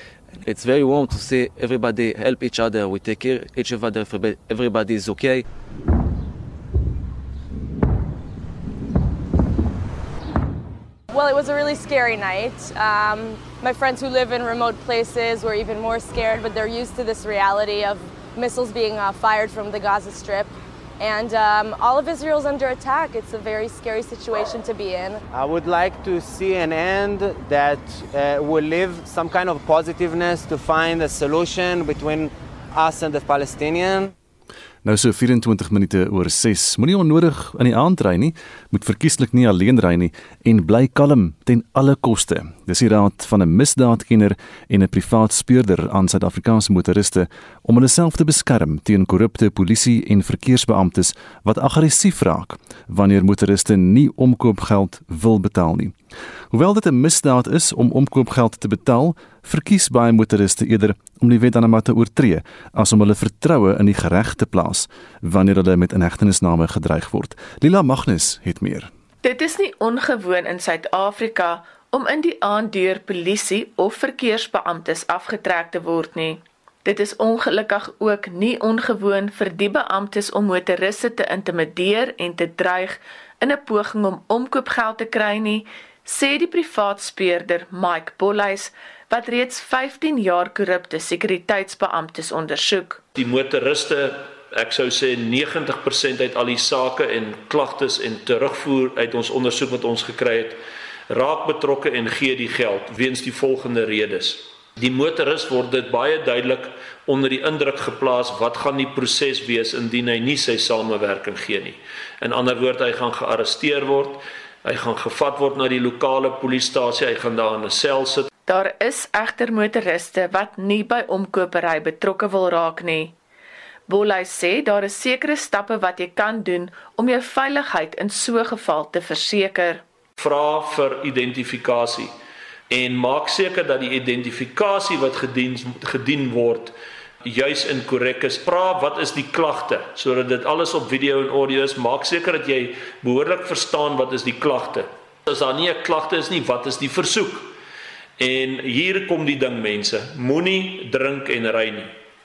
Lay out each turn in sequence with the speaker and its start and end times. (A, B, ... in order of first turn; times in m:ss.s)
0:00.4-0:05.4 A
0:11.1-0:25.2 B
0:25.4-0:34.1 C
0:34.8-0:55.9 D
0:56.5-1:08.9 D
1:09.2-1:33.0 E
1:33.2-1:58.3 F
1:58.5-2:03.1 E
2:03.9-2:09.8 E
2:10.2-2:12.1 F
2:12.7-2:16.7 F
2:17.2-2:27.5 F
2:28.2-2:31.9 F